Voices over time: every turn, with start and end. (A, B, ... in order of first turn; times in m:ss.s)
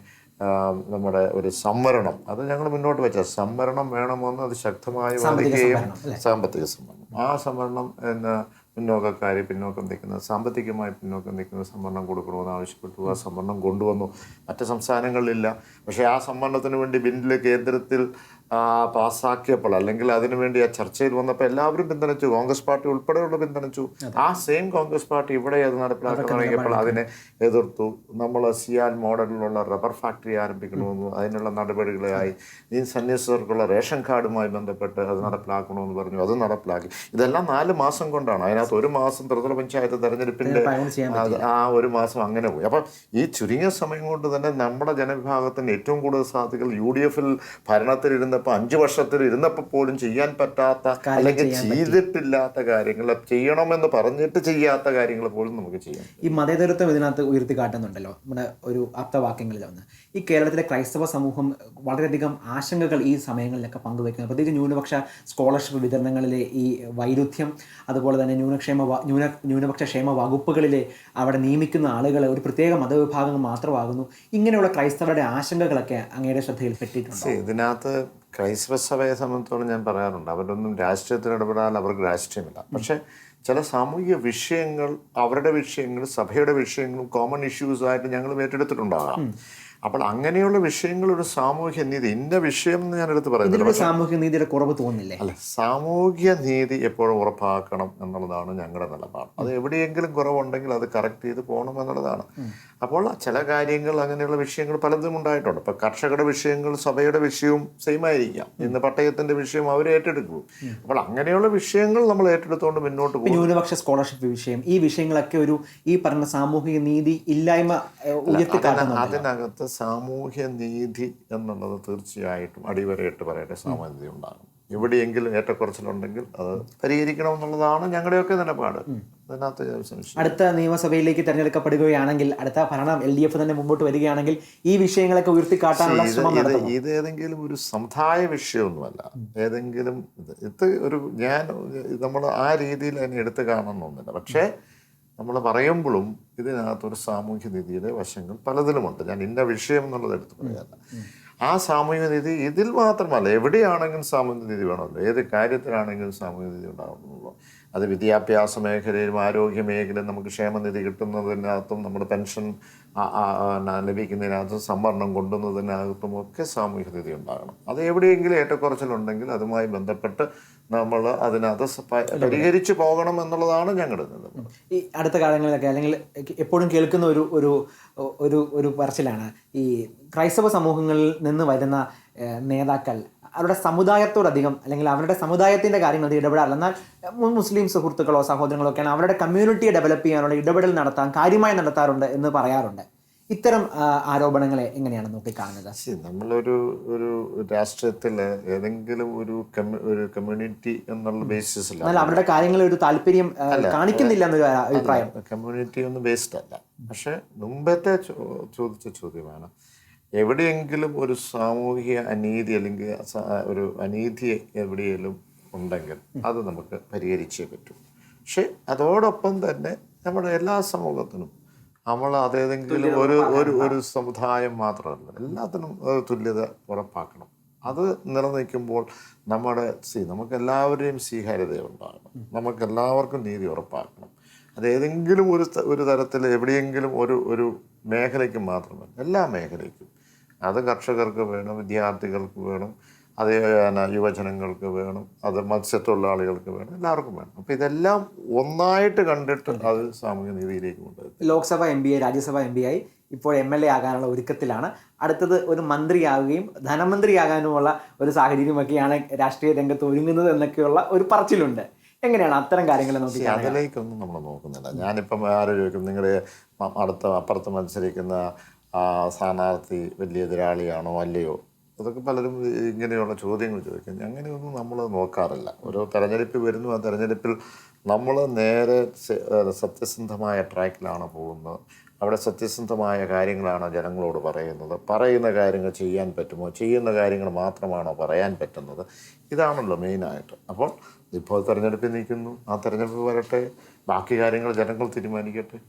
0:00.4-0:56.2 A
0:05.2-0:06.2 B
0:26.1-0:27.0 B
0:40.4-0:41.5 B
0:51.0-0:52.0 B
0:56.2-1:17.4 B
1:17.2-1:29.3 A
1:29.8-1:33.9 A
1:33.4-1:35.2 B
1:35.2-1:42.3 A
1:42.8-1:53.5 A
1:53.2-1:59.2 B
1:58.3-2:10.4 A
2:10.2-2:16.7 B
2:15.8-2:24.5 A
2:25.2-2:30.8 A
2:30.4-2:31.1 B
2:31.5-2:54.5 A
2:52.2-2:52.5 B
2:54.4-3:15.8 B
3:15.8-3:22.6 A
3:21.8-3:25.1 B
3:23.5-3:24.2 A
3:24.7-3:29.5 A
3:30.2-3:41.3 A
3:41.9-3:59.9 A
3:42.7-3:43.8 B
4:00.5-4:11.4 A
4:11.2-4:23.6 B
4:23.1-4:28.2 A
4:28.8-4:37.4 A
4:37.9-4:55.6 A